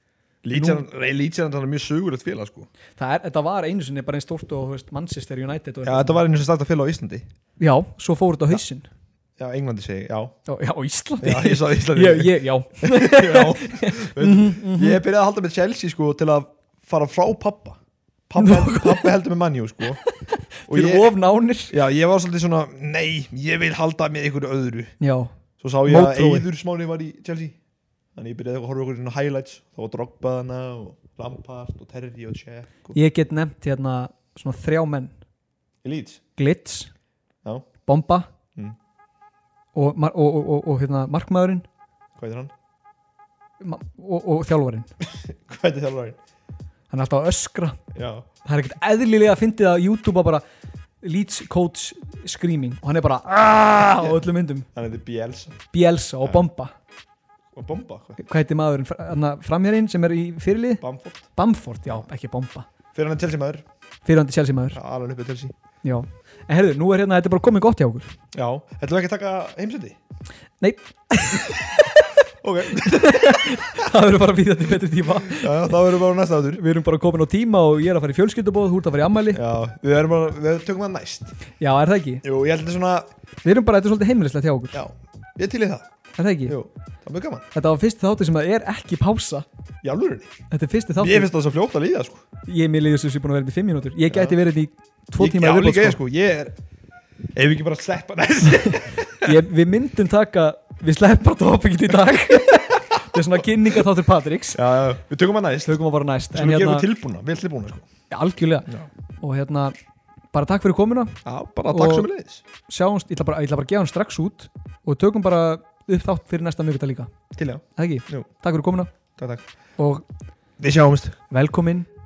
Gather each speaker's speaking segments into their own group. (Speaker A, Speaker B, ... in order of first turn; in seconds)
Speaker A: 0.4-2.7, 5.8-7.2, 9.4-10.3, 11.2-20.0, 20.7-21.1, 21.7-24.9, 25.6-27.6, 28.1-32.9, 35.8-36.2, 42.1-42.5, 45.0-46.2, 47.9-48.2, 54.7-55.6, 57.5-58.2, 60.8-61.2, 62.9-63.6, 64.7-65.5, 68.3-70.0, 72.4-73.8, 75.2-76.6, 79.3-81.3, 82.2-83.1, 84.7-85.9, 86.5-87.5, 89.8-90.3, 91.0-92.2, 94.1-94.3, 95.2-96.6, 97.3-99.3, 104.5-105.8, 106.3-107.9, 111.2-112.4, 117.3-118.3, 119.2-119.4, 120.6-121.2
Speaker B: 0.5-0.8, 3.0-6.2, 7.6-8.9, 10.4-15.0, 18.4-19.1, 20.3-21.8, 25.0-25.3, 25.9-26.5, 32.9-35.1, 36.4-36.9, 37.9-38.3, 39.7-41.6, 43.6-44.9, 46.9-47.8, 48.4-50.4, 51.0-54.7, 55.7-56.7, 58.2-60.8, 61.4-62.7, 64.0-64.8, 65.8-68.1, 70.6-72.1, 72.8-75.8, 76.5-79.4, 81.6-82.2, 83.4-84.8, 86.2-86.6, 87.5-89.5, 90.5-91.3, 92.4-96.0, 99.2-104.6, 105.6-106.9, 108.1-108.7, 109.2-109.7, 110.3-112.1, 112.7-117.1, 117.8-118.9, 119.8-120.0, 121.3-121.9